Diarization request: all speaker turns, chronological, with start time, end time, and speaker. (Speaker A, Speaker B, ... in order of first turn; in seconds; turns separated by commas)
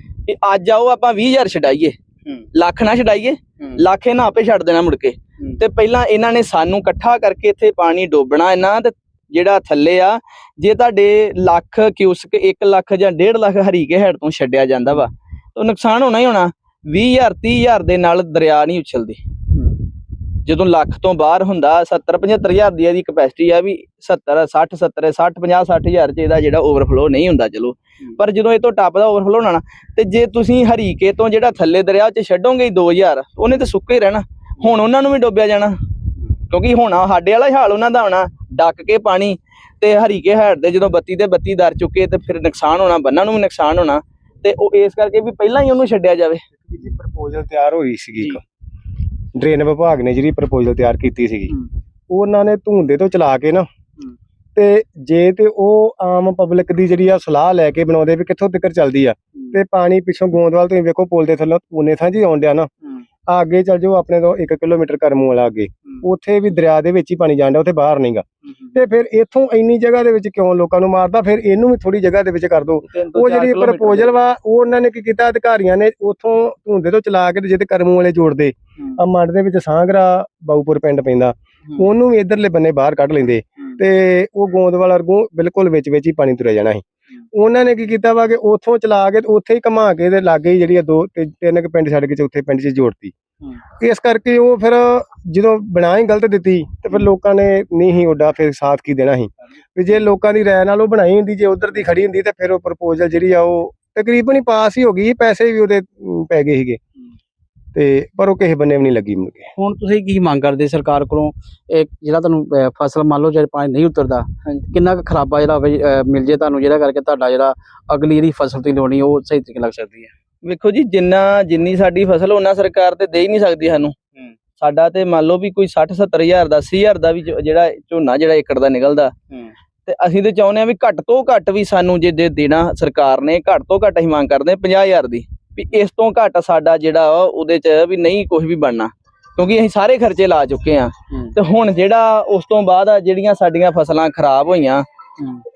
Speaker A: 0.3-2.0, Speaker A: 2.5-19.2, Speaker A: 20.4-35.8, Speaker A: 36.5-46.4, Speaker B: 46.7-48.4, Speaker B: 49.4-51.5, Speaker B: 52.1-53.7, Speaker B: 54.5-62.7, Speaker B: 63.3-93.1, Speaker A: 72.9-74.1, Speaker B: 93.8-106.8, Speaker B: 107.7-109.5, Speaker C: 109.6-120.1, Speaker A: 120.5-124.0, Speaker A: 124.6-129.1, Speaker A: 129.9-144.8